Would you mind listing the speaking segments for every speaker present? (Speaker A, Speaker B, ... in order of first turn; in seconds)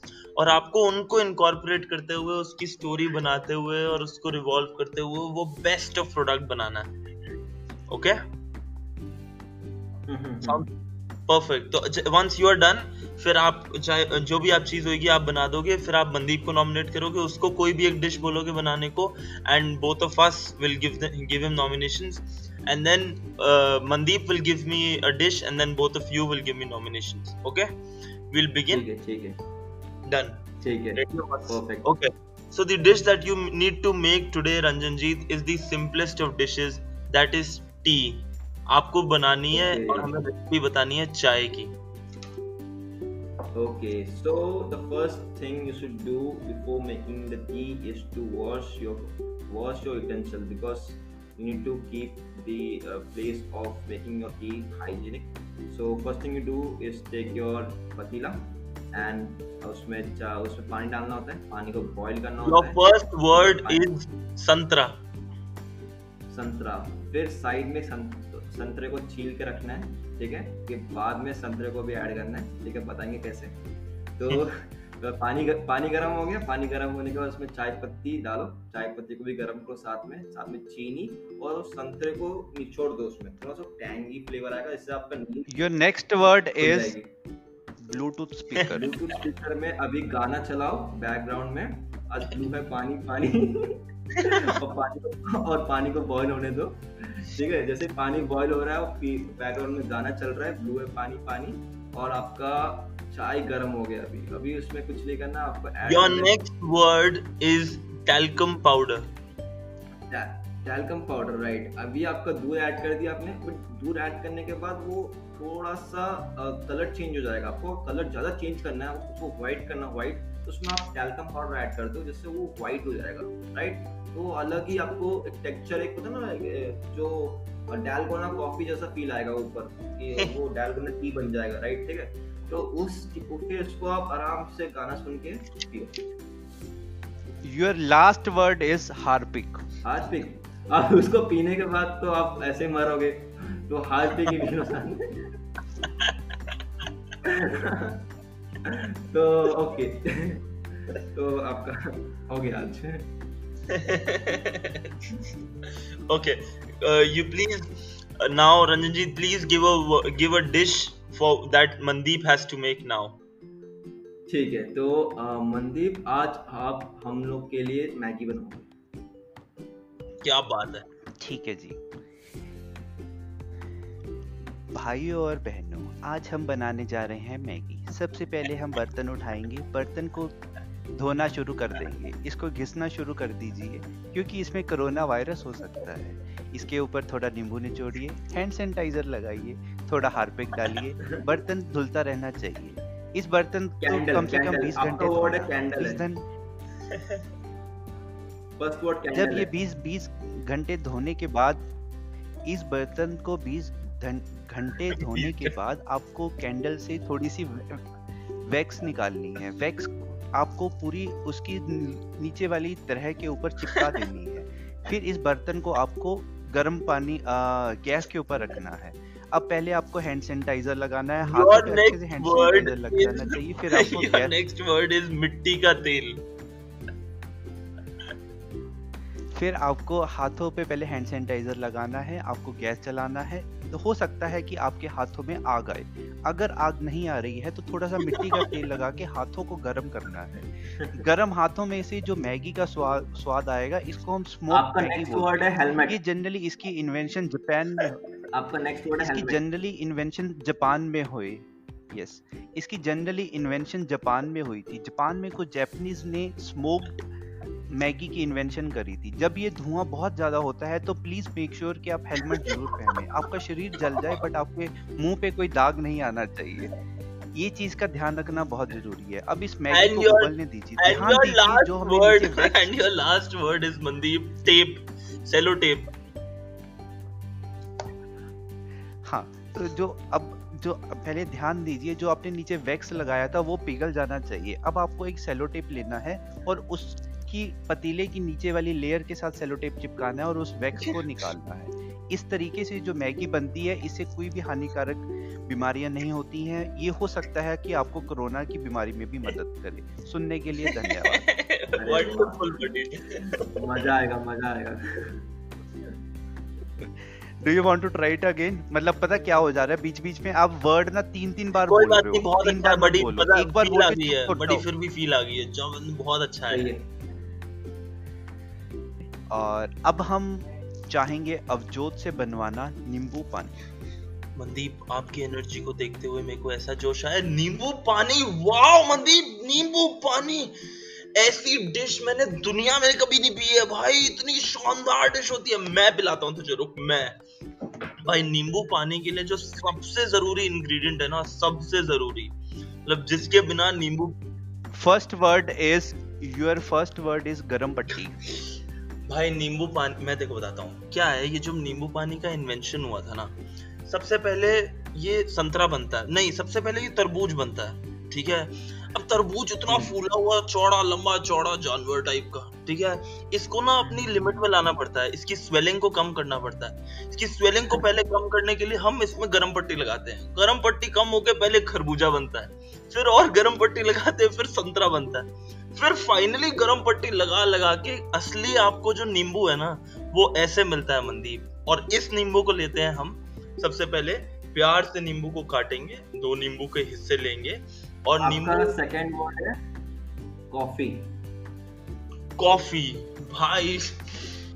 Speaker A: 0.3-6.9, 7.9-8.2, 10.4-10.7, 11.3-27.7, 28.3-28.8, 30.1-41.7, 62.4-65.0, 105.9-109.1, 153.7-155.1, 156.1-163.2, 170.2-170.8, 196.9-197.2, 205.0-205.5, 221.3-226.2, 269.7-275.9, 300.7-303.9, 311.7-316.7, 324.4-330.5, 331.1-337.2, 338.0-344.1, 349.1-353.3, 353.9-388.8, 392.4-394.2
Speaker B: 10.1-10.6, 28.7-29.4, 30.6-31.9, 39.5-40.1, 43.5-63.9, 66.3-73.6, 74.2-85.7, 86.5-87.1, 88.7-106.3, 110.1-136.1, 139.8-145.3, 147.2-148.0, 148.6-153.1, 164.3-168.7, 193.8-196.0, 198.6-199.5, 244.5-246.0, 248.3-249.4, 301.8-302.4, 303.3-305.2, 316.5-316.9, 359.7-359.9, 363.8-364.4, 388.2-389.6, 390.5-391.1
Speaker C: 85.5-87.0, 87.8-88.9, 137.4-139.7, 171.2-171.8, 174.7-180.4, 180.9-196.2, 199.1-201.7, 202.4-207.9, 208.4-224.3, 229.3-248.0, 249.0-257.1, 257.7-266.7, 267.3-272.7, 279.0-301.2, 306.8-314.6, 319.3-323.6, 344.7-348.2